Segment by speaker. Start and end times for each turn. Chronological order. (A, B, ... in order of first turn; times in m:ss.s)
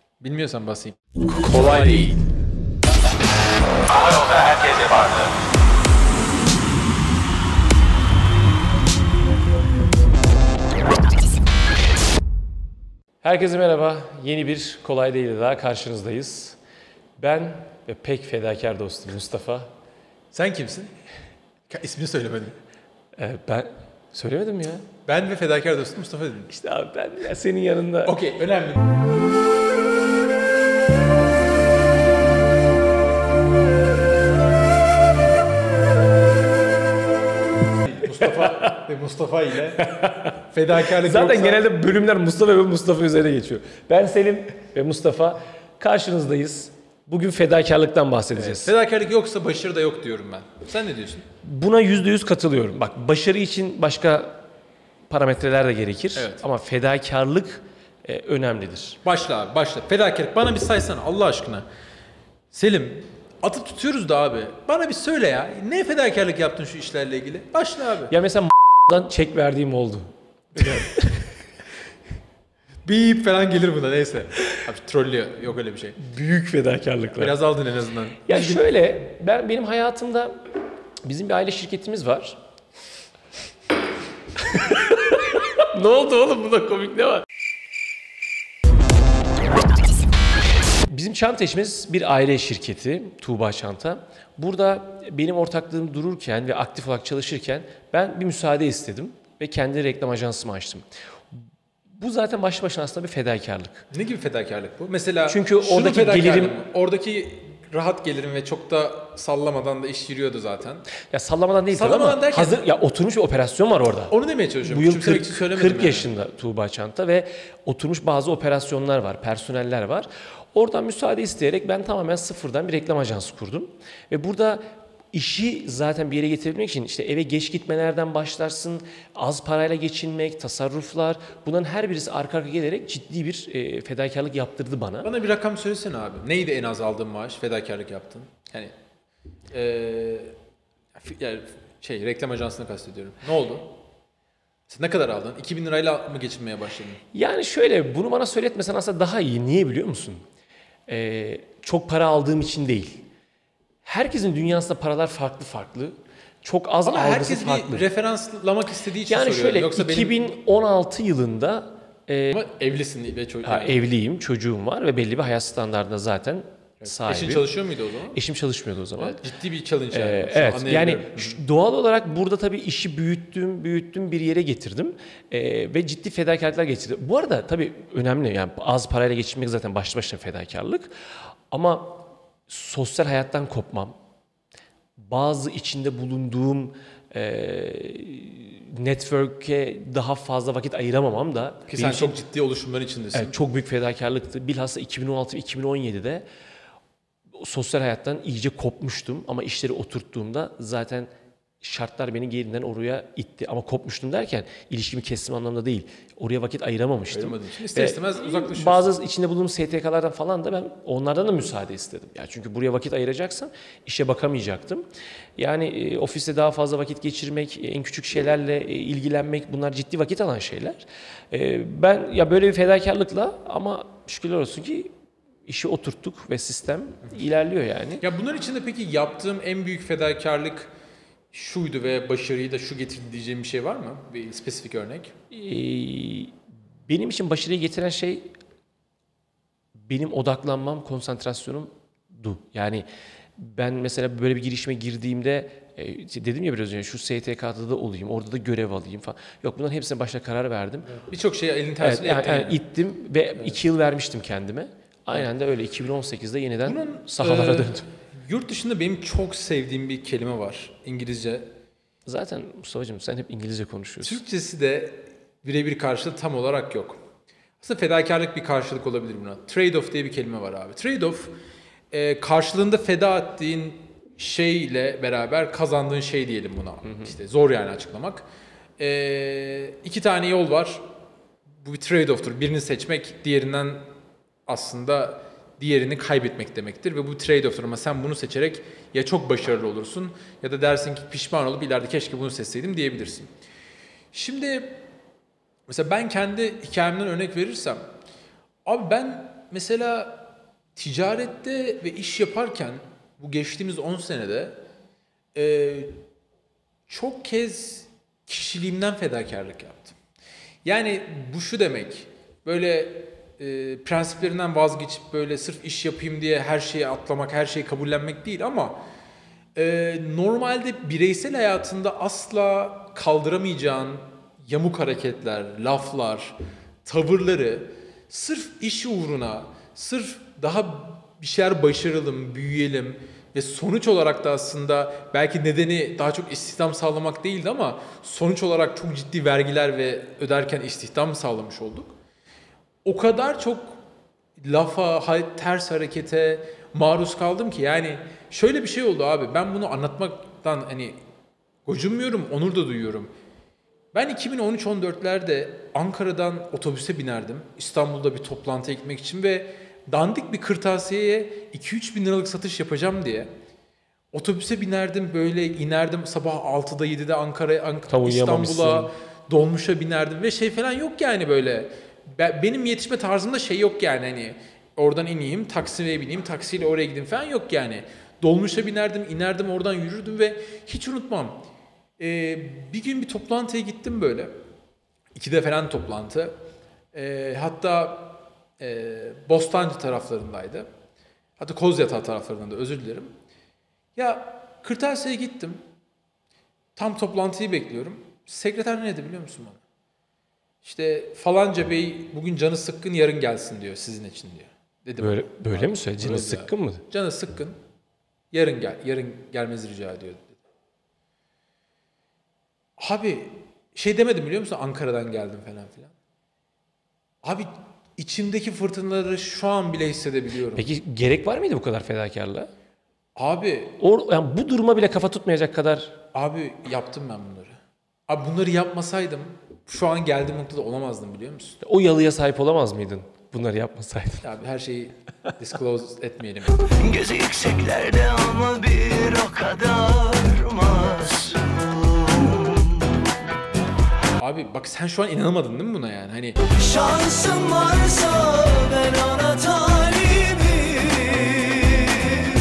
0:00.2-0:02.2 A
0:03.9-0:05.3 A
0:13.2-0:16.6 B
0:17.2-0:19.7 B
0:20.3-0:20.9 A
0:21.7-0:22.6 A
0:23.2-0:24.9 B
0:25.1-0:26.5 A
0:26.5-0:28.2 B
0:28.0-0:28.9 A
0:37.9-0:39.9 A
0:38.2-0:38.7 B
0:39.8-0:40.4 B
0:40.5-0:41.6 A
0:41.0-0:48.7 B
0:48.3-0:51.3 A
0:51.4-0:54.4 B
0:55.1-0:59.0 B
0:56.2-0:56.4 A
0:59.0-1:01.6 A
1:02.5-1:08.1 A
1:08.1-1:11.4 B
1:10.6-1:10.8 A
1:12.8-1:16.0 A
1:16.0-1:17.4 B
1:17.2-1:18.6 A
1:18.3-1:20.4 B
1:21.0-1:22.4 B
1:24.4-1:27.3 B
1:30.9-1:43.9 B
1:43.9-1:50.9 A
1:45.3-1:46.6 B
1:51.1-2:04.6 B
1:51.7-1:52.6 A
1:54.1-1:56.1 A
2:05.1-2:15.1 B
2:15.0-2:18.7 A
2:19.5-2:20.3 A
2:21.0-2:23.8 A
2:24.7-2:27.0 A
2:27.1-2:30.2 B
2:30.9-2:33.0 B
2:33.8-2:37.8 B
2:36.8-2:40.2 A
2:39.1-2:42.4 B
2:42.3-2:43.8 A
2:43.4-2:47.5 B
2:46.8-2:48.2 A
2:48.1-2:49.2 B
2:49.0-2:51.4 A
2:49.9-3:00.9 B
3:01.5-3:04.0 B
3:05.0-3:12.2 B
3:11.7-3:13.4 A
3:13.1-3:16.3 B
3:17.4-3:21.1 B
3:21.6-3:34.8 B
3:27.1-3:28.9 A
3:35.4-3:44.9 B
3:45.5-3:48.0 B
3:48.0-3:50.7 A
3:51.3-3:55.1 A
3:55.3-3:56.4 B
3:56.9-3:58.2 B
3:59.8-4:02.9 B
4:03.4-4:11.0 B
4:11.0-4:12.6 A
4:11.8-4:17.9 B
4:16.6-4:21.5 A
4:22.1-4:24.2 B
4:24.0-4:27.0 A
4:27.6-4:31.3 A
4:31.9-4:38.3 A
4:38.8-4:40.8 A
4:41.6-4:43.9 A
4:44.5-4:53.3 A
4:54.1-4:54.8 A
4:55.7-4:57.8 A
4:58.6-5:04.6 A
5:05.4-5:06.0 A
5:06.9-5:10.0 A
5:10.6-5:18.8 A
5:19.6-5:41.9 A
5:42.8-5:43.8 A
5:44.4-5:51.0 A
5:51.7-5:53.1 A
5:53.9-6:03.3 A
6:04.1-6:21.4 A
6:07.9-6:08.9 B
6:22.0-6:24.3 A
6:25.2-6:26.4 A
6:26.9-6:30.7 A
6:31.4-6:33.1 A
6:34.0-6:35.6 A
6:36.8-6:39.6 A
6:40.6-6:47.6 A
6:45.0-6:46.8 B
6:48.3-6:50.4 A
6:52.8-6:55.9 A
6:57.2-7:00.7 A
7:00.6-7:02.5 B
7:03.2-7:03.8 A
7:03.8-7:06.0 B
7:06.1-7:07.6 A
7:08.1-7:11.6 A
7:11.6-7:14.3 B
7:14.2-7:16.7 A
7:16.8-7:22.6 C
7:24.2-7:26.5 A
7:26.7-7:32.1 C
7:27.0-7:27.4 B